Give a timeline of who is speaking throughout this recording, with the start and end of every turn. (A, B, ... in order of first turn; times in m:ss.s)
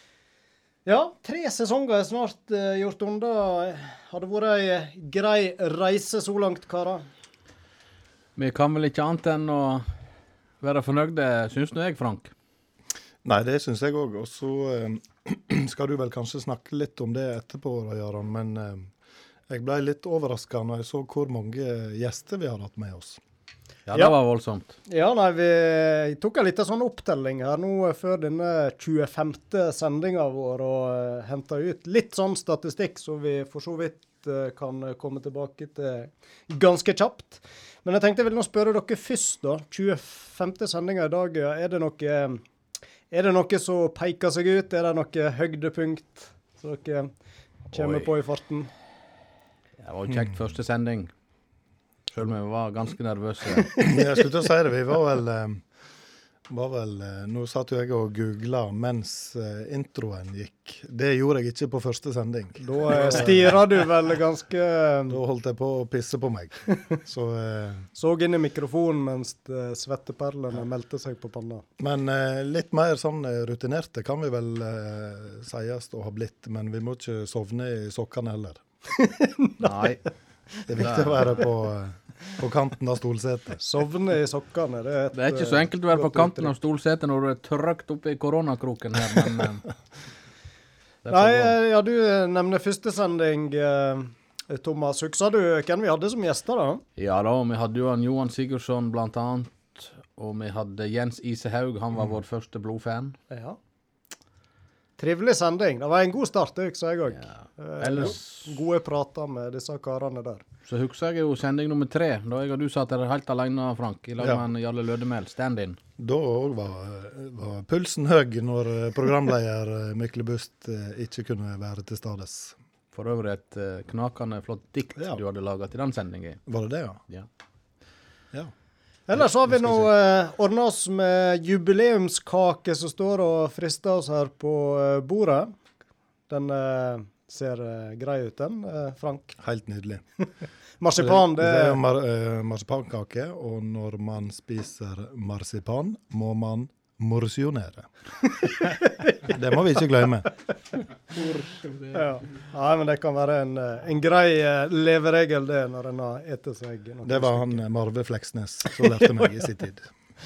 0:00.8-0:07.1 A
0:08.4-0:09.9 B
0:10.6-0:12.3 B
0:13.2-0:18.9 C
0:19.5-0:23.2 C
0:23.9-0:24.8 B
0:24.9-0:42.4 A
0:43.1-0:47.1 A
0:47.7-0:48.7 A
0:47.7-0:48.1 B
0:49.8-0:51.1 B
0:52.1-0:53.9 B
0:53.8-0:55.6 C
0:56.5-1:03.6 C
1:02.6-1:05.2 A
1:05.1-1:07.9 C
1:08.0-1:11.6 A
1:11.8-1:18.6 C
1:19.0-1:19.9 A
1:19.6-1:20.0 B
1:20.7-1:23.6 C
1:20.8-1:21.3 B
1:23.6-1:26.5 A
1:25.1-1:29.7 B
1:31.0-1:31.5 B
1:31.1-1:36.8 A
1:37.0-1:43.2 B
1:43.3-1:43.6 A
1:45.0-1:50.4 A
1:47.2-1:48.5 B
1:50.7-1:55.8 B
1:56.0-2:02.6 C
2:02.9-2:06.4 B
2:06.5-2:07.0 C
2:09.1-2:15.5 A
2:09.2-2:09.9 C
2:16.3-2:19.4 A
2:19.4-2:20.0 C
2:20.8-2:21.8 A
2:21.0-2:27.9 C
2:29.2-2:30.3 C
2:31.1-2:37.6 A
2:37.0-2:39.9 C
2:38.8-2:39.4 A